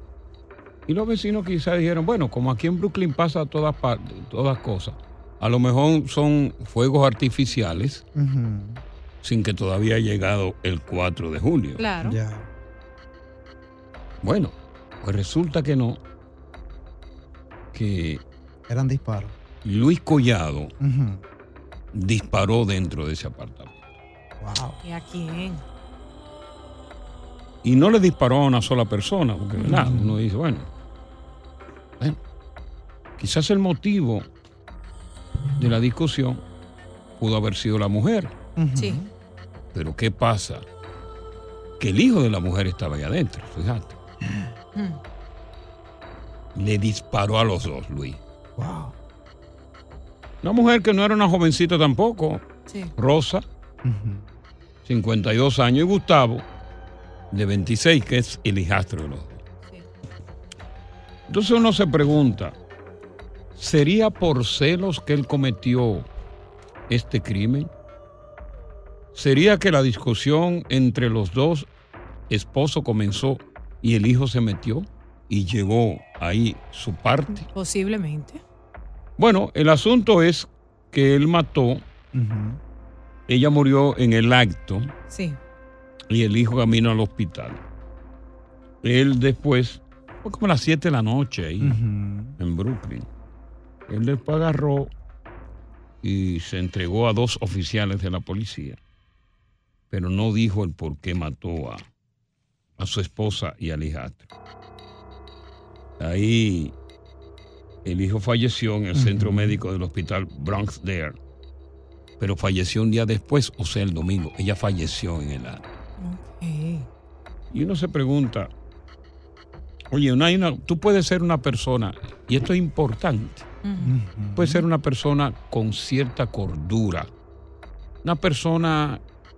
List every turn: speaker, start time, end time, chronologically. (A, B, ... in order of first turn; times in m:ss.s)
0:00.9-0:08.0 A
0:08.2-0:08.8 B
0:09.2-0:11.8 A
0:11.8-0:12.2 C
0:12.1-0:12.4 B
0:14.2-0:16.0 A
0:17.7-0:18.2 A
0:18.7-0:19.3 B
0:19.6-0:20.7 A
0:20.8-0:21.2 B
0:21.9-0:23.7 A
0:24.4-0:24.8 B
0:24.8-0:25.6 C
0:27.6-0:30.7 A
0:33.2-0:34.3 A
0:35.6-0:36.4 A
0:37.2-0:38.3 A
0:38.6-0:39.0 B
0:38.8-0:39.0 C
0:39.7-0:40.6 A
0:41.8-0:44.0 A
0:46.6-0:48.2 A
0:48.6-0:48.9 B
0:50.4-0:52.4 A
0:53.0-0:53.4 A
0:53.9-0:54.2 B
0:54.8-0:56.5 A
0:57.3-0:59.4 A
1:01.3-1:02.6 A
1:03.6-1:06.1 A
1:06.9-1:07.7 A
1:09.2-1:11.7 A
1:12.3-1:17.4 A
1:17.5-1:18.4 C
1:19.2-1:21.8 A
1:22.2-1:22.6 B
1:23.3-1:24.9 A
1:25.1-1:25.4 C
1:26.1-1:27.6 A
1:28.8-1:31.8 A
1:31.6-1:32.3 B
1:32.4-1:33.1 A
1:33.9-1:34.9 A
1:36.0-1:38.8 A
1:39.9-1:41.8 A
1:42.8-1:44.3 A
1:46.0-1:46.8 A
1:47.8-1:51.2 A
1:52.2-1:55.6 A
1:56.0-1:56.9 C
1:57.5-1:58.5 A
1:59.9-2:03.5 A
2:03.6-2:04.0 C
2:03.9-2:04.3 B
2:04.4-2:07.1 A
2:08.0-2:09.0 A